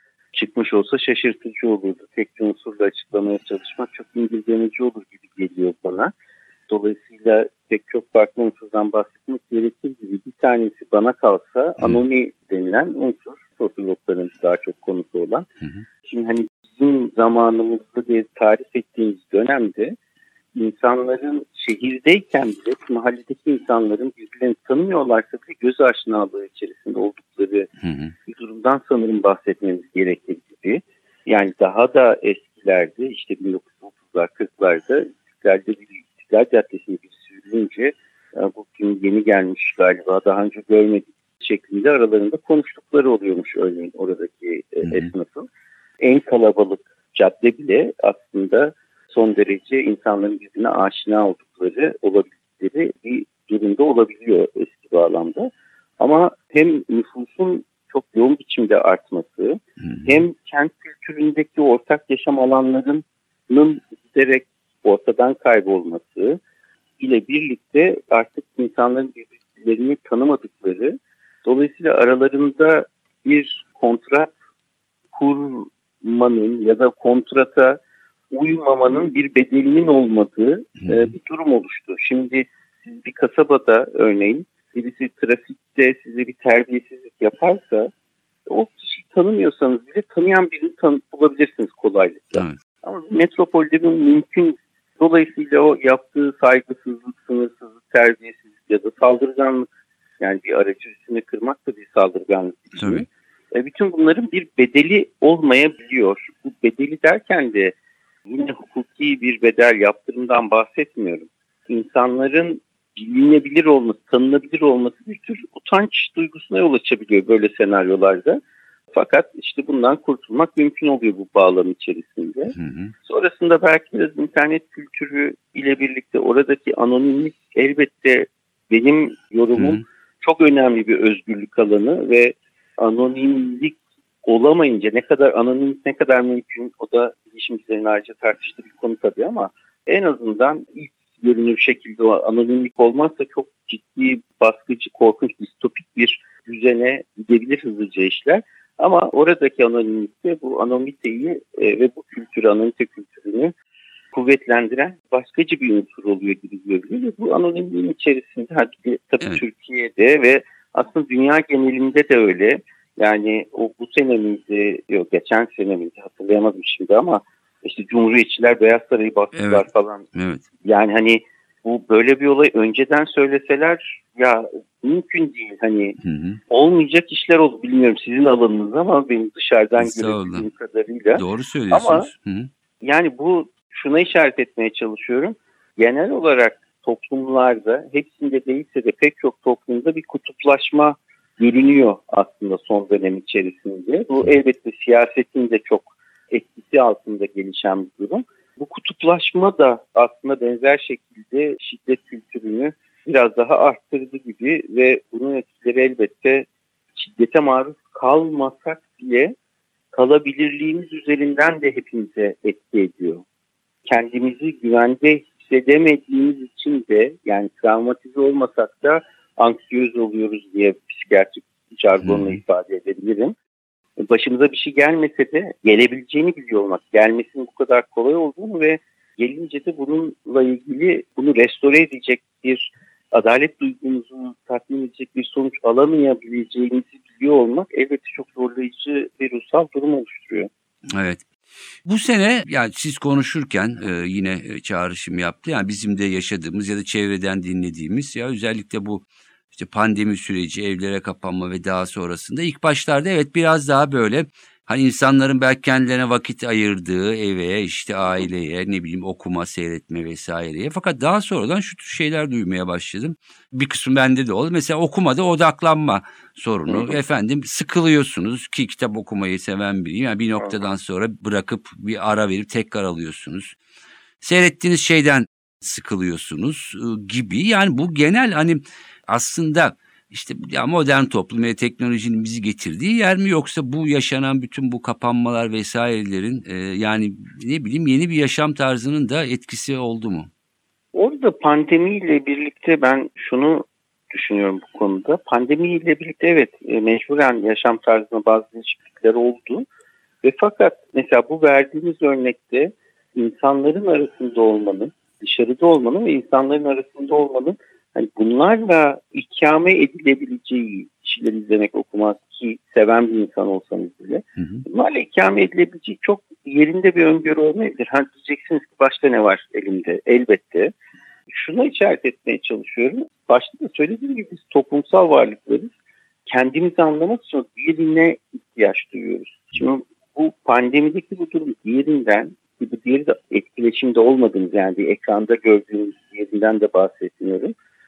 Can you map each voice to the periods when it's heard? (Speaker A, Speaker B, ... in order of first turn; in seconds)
Speaker A: 0.3-6.1, 6.7-15.4, 16.0-19.9, 20.5-27.7, 28.2-45.5, 46.0-66.4, 67.0-74.3, 75.1-77.8, 78.3-87.9, 88.5-107.7, 108.3-118.4, 118.9-153.5, 154.1-170.0, 170.6-176.0, 176.5-182.1, 182.8-209.3, 209.9-213.2, 213.8-223.3, 224.0-240.5, 266.7-267.0, 290.9-299.7, 300.2-320.7, 321.3-325.7, 326.2-337.5
Speaker B: 27.8-28.1, 59.8-60.2, 102.8-103.0, 122.5-122.9, 129.6-129.8, 169.3-170.4, 176.0-176.4, 179.8-180.5, 181.2-182.5, 222.0-222.4, 240.9-241.2, 241.8-273.5, 274.2-290.3, 314.4-314.6